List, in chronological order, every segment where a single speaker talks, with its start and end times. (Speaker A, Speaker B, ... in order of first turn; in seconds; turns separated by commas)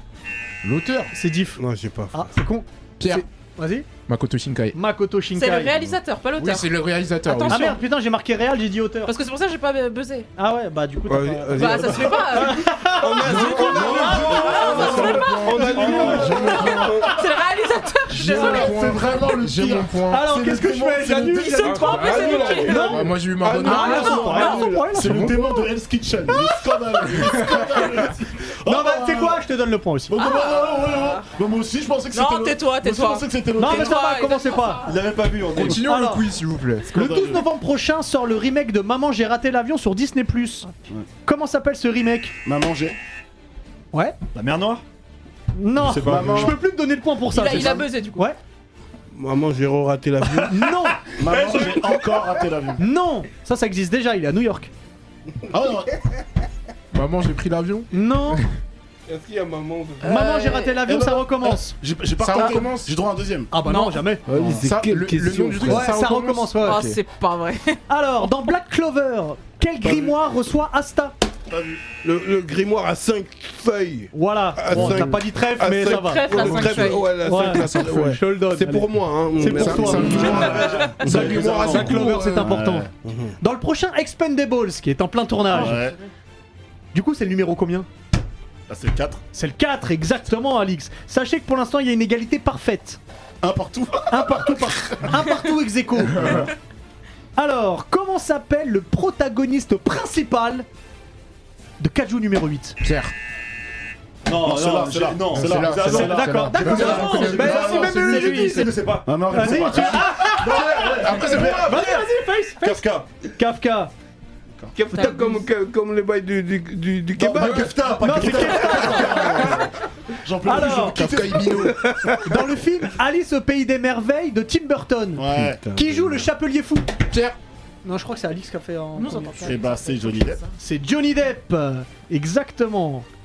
Speaker A: 0.6-1.1, Speaker B: 1.1-1.6, Speaker C: 1.6-2.3, Speaker B: 2.1-3.9, Speaker A: 3.0-3.2, Speaker A: 4.1-4.8, Speaker B: 4.7-5.8, Speaker D: 5.3-7.8, Speaker A: 6.4-7.8, Speaker B: 7.5-9.1, Speaker D: 9.1-10.3, Speaker B: 10.4-16.2, Speaker C: 11.1-17.1, Speaker D: 11.5-18.8, Speaker A: 13.2-17.1, Speaker E: 13.7-14.9, Speaker F: 14.3-15.2, Speaker E: 15.5-16.4, Speaker F: 15.8-17.2, Speaker A: 18.1-25.4, Speaker F: 18.2-19.9, Speaker B: 20.1-25.7, Speaker F: 21.0-21.3, Speaker D: 21.3-24.7, Speaker C: 21.4-24.0, Speaker F: 23.8-29.4, Speaker B: 26.3-27.5, Speaker A: 27.2-27.9, Speaker B: 28.6-30.2, Speaker F: 30.1-34.0, Speaker D: 30.1-31.3, Speaker D: 32.1-34.9, Speaker B: 33.6-34.9, Speaker E: 34.8-35.9, Speaker A: 35.5-36.9, Speaker B: 35.6-36.3, Speaker F: 36.9-37.5, Speaker B: 36.9-40.7, Speaker B: 41.2-42.3, Speaker F: 42.4-43.0, Speaker E: 44.3-44.8, Speaker B: 45.5-48.4, Speaker E: 45.8-46.6, Speaker F: 46.0-46.6, Speaker D: 47.3-48.2, Speaker F: 47.5-47.8, Speaker C: 49.1-50.8, Speaker B: 50.3-51.0, Speaker F: 51.2-52.8, Speaker E: 51.4-51.6, Speaker B: 52.8-54.7, Speaker F: 55.5-56.0, Speaker A: 56.9-58.4, Speaker B: 57.9-58.4, Speaker C: 59.1-60.1, Speaker D: 60.0-60.8, Speaker B: 60.0-61.7, Speaker F: 60.8-63.5, Speaker A: 62.2-62.9, Speaker D: 62.3-62.6, Speaker B: 63.5-64.2, Speaker D: 63.6-64.0, Speaker C: 64.3-66.0, Speaker F: 64.3-64.6, Speaker A: 64.5-67.0, Speaker B: 65.6-66.9, Speaker D: 66.6-67.8, Speaker B: 67.9-71.1, Speaker F: 69.8-70.1, Speaker F: 71.5-71.8, Speaker C: 72.0-80.3, Speaker B: 74.1-85.8, Speaker E: 74.7-75.1, Speaker D: 75.8-77.2, Speaker A: 77.4-78.1, Speaker A: 79.5-82.5, Speaker F: 80.0-82.9, Speaker E: 80.1-82.1, Speaker D: 80.3-80.9, Speaker C: 81.0-81.3, Speaker C: 83.0-83.3, Speaker F: 85.5-86.0, Speaker D: 85.7-86.0, Speaker B: 86.9-87.9, Speaker F: 88.7-89.2, Speaker B: 89.3-93.0, Speaker F: 93.4-95.1, Speaker B: 94.1-96.5, Speaker F: 96.1-96.5, Speaker A: 96.2-96.4, Speaker B: 97.3-100.7, Speaker B: 101.8-102.8, Speaker A: 102.8-103.1, Speaker E: 104.2-109.8, Speaker F: 104.3-107.9, Speaker A: 105.3-108.7, Speaker B: 105.8-108.8, Speaker F: 109.0-111.9, Speaker B: 109.3-112.8, Speaker A: 109.5-112.0, Speaker E: 112.6-113.1, Speaker B: 113.3-113.9, Speaker C: 114.7-117.7, Speaker D: 114.9-115.4, Speaker E: 117.2-119.0, Speaker F: 117.3-121.7, Speaker B: 117.8-119.7, Speaker B: 120.4-121.1, Speaker A: 120.5-122.1, Speaker C: 121.6-122.6, Speaker B: 122.2-126.9, Speaker F: 125.2-125.6, Speaker C: 125.3-126.3, Speaker A: 127.1-127.4, Speaker B: 127.8-129.6, Speaker D: 128.9-130.5, Speaker F: 129.4-130.4, Speaker B: 130.6-133.1